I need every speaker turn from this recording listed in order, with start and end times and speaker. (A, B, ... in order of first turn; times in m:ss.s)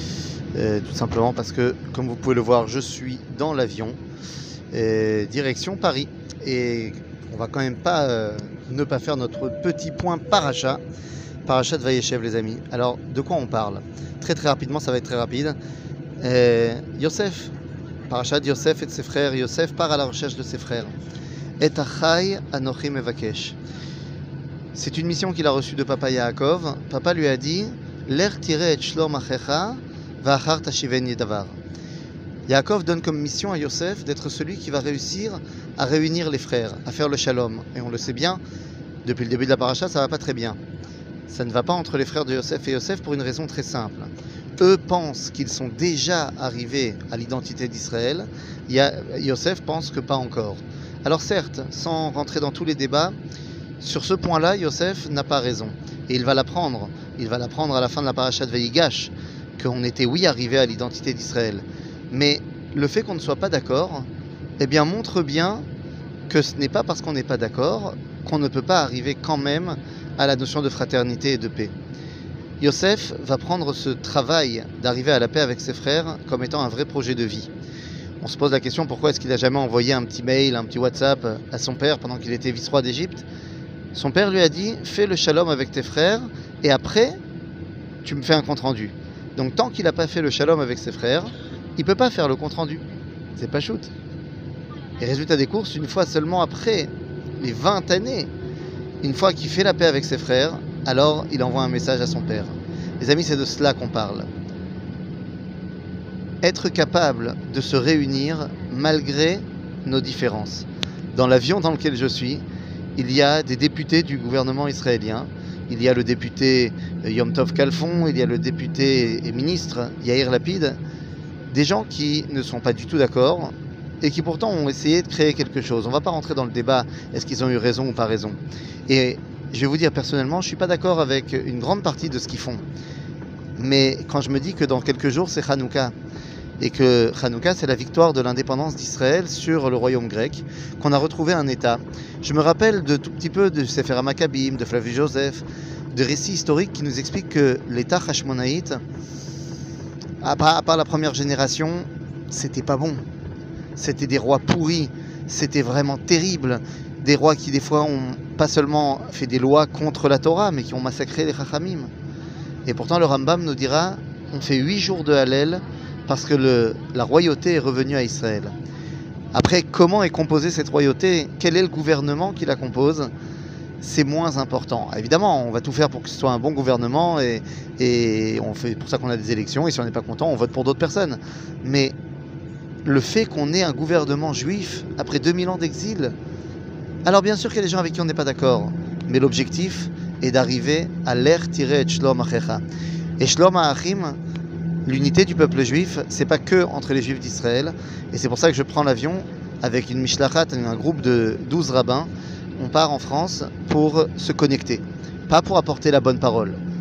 0:00.5-0:04.0 A
0:04.7-0:10.8 A
0:11.5-0:15.6 A
0:16.2-0:17.5 A
0:18.1-0:21.0 A
0:21.6-0:23.6 A
0:24.8-0:31.6 A
0:32.5-0:38.4 A
0:39.0-0:40.6 A
0:41.3-0:53.2 A
0:53.8-1:04.1 A
1:04.6-1:05.6 A
1:06.3-1:11.7 A
1:12.6-1:17.5 A
1:18.2-1:23.3 A
1:23.9-1:27.2 A
1:28.0-1:32.8 A
1:33.3-1:33.9 A
1:35.0-1:38.3 A
1:39.0-1:44.3 A
1:46.4-1:52.4 A
1:53.0-2:00.8 A
2:01.5-2:12.6 A
2:13.6-2:15.9 A
2:16.6-2:28.8 A
2:30.2-2:33.0 A
2:33.8-2:41.9 A
2:42.7-2:48.6 A
2:49.3-2:53.1 A
2:53.8-3:02.0 A
3:02.8-3:06.2 A
3:07.0-3:12.6 A
3:13.2-3:14.2 A
3:14.9-3:26.6 A